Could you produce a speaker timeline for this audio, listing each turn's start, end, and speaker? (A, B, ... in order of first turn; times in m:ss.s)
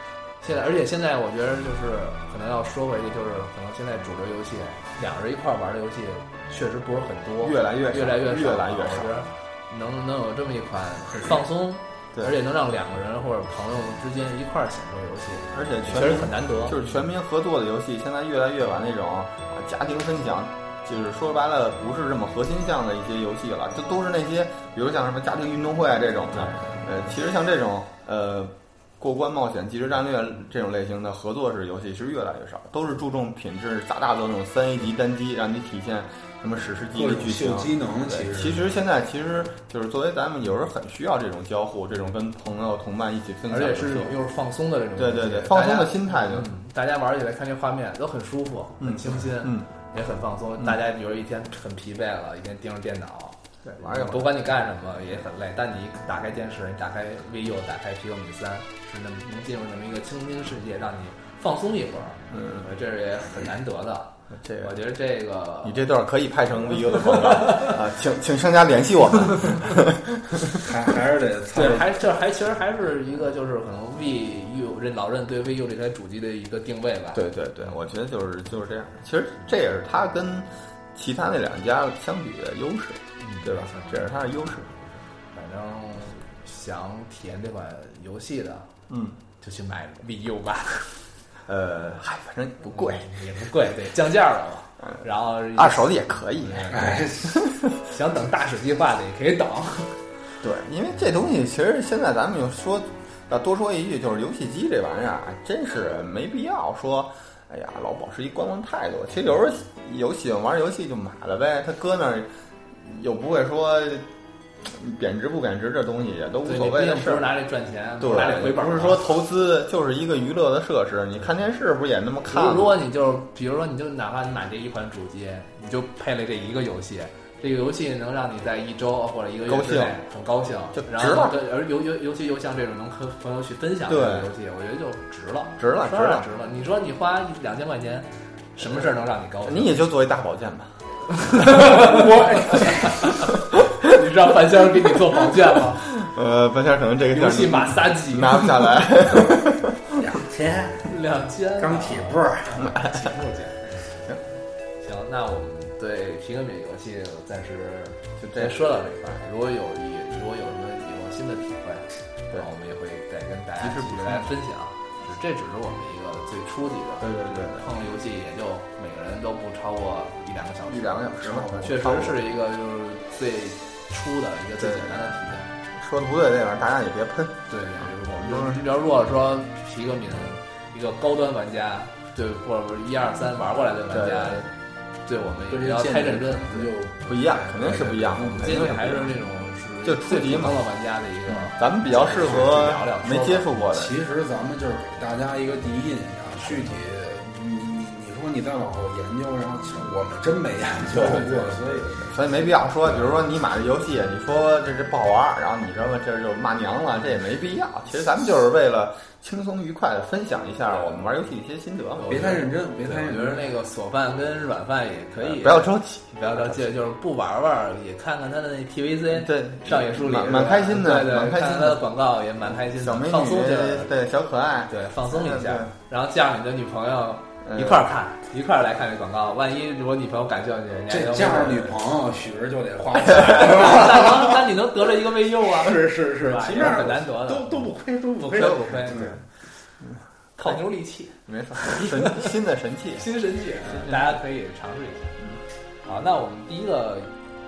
0:00.4-0:16.8 A
0:07.4-0:09.3 B
0:15.5-0:44.2 B
0:36.9-0:38.8 C
0:43.5-1:05.9 A
0:45.0-0:46.5 B
0:48.8-0:49.7 B
0:53.6-0:54.3 B
1:02.3-1:02.7 B
1:04.3-1:04.7 B
1:05.6-1:10.7 B
1:06.7-1:07.8 A
1:10.5-1:12.0 C
1:11.5-1:17.2 A
1:17.1-1:25.0 B
1:23.2-1:23.9 A
1:25.3-1:28.7 A
1:28.9-1:29.2 B
1:29.4-1:31.0 A
1:31.5-1:33.1 B
1:32.7-1:37.2 A
1:35.6-1:37.8 B
1:36.7-1:37.4 C
1:37.8-1:40.0 A
1:40.4-1:54.1 B
1:54.6-1:57.3 B
1:56.4-1:59.0 A
1:58.0-2:02.8 B
2:02.3-2:19.8 A
2:09.5-2:10.0 B
2:10.7-2:11.4 B
2:13.9-2:14.3 B
2:15.6-2:16.3 B
2:19.4-2:20.7 B
2:21.1-2:25.9 A
2:21.3-2:21.8 B
2:21.7-2:23.1 C
2:25.8-2:30.1 B
2:27.1-2:28.8 A
2:30.0-2:30.9 C
2:30.9-2:33.8 A
2:31.6-2:32.7 C
2:32.6-2:33.1 B
2:34.8-2:55.5 A
2:38.2-2:38.6 B
2:43.6-2:44.3 B
2:47.0-2:47.7 B
2:50.7-2:52.2 B
2:54.6-2:55.1 B
2:55.7-2:58.7 B
2:57.5-3:04.5 A
3:03.9-3:04.4 B
3:05.0-3:06.7 A
3:05.5-3:08.5 C
3:07.0-3:09.1 B
3:08.2-3:13.6 A
3:09.8-3:10.7 B
3:11.5-3:14.0 B
3:13.7-3:23.1 C
3:20.9-3:32.4 B
3:30.7-3:31.1 A
3:32.0-3:43.9 A
3:32.1-3:33.4 C
3:35.2-3:36.7 B
3:39.1-3:41.8 B
3:42.5-3:45.7 B
3:44.7-3:51.8 A
3:47.4-3:47.8 B
3:50.9-3:54.5 C
3:53.0-3:57.6 A
3:55.6-3:59.2 C
3:58.3-3:59.2 A
3:58.4-3:59.2 B
3:59.8-4:00.6 B
4:00.4-4:02.4 A
4:01.3-4:04.2 B
4:03.0-4:05.2 A
4:05.8-4:07.1 A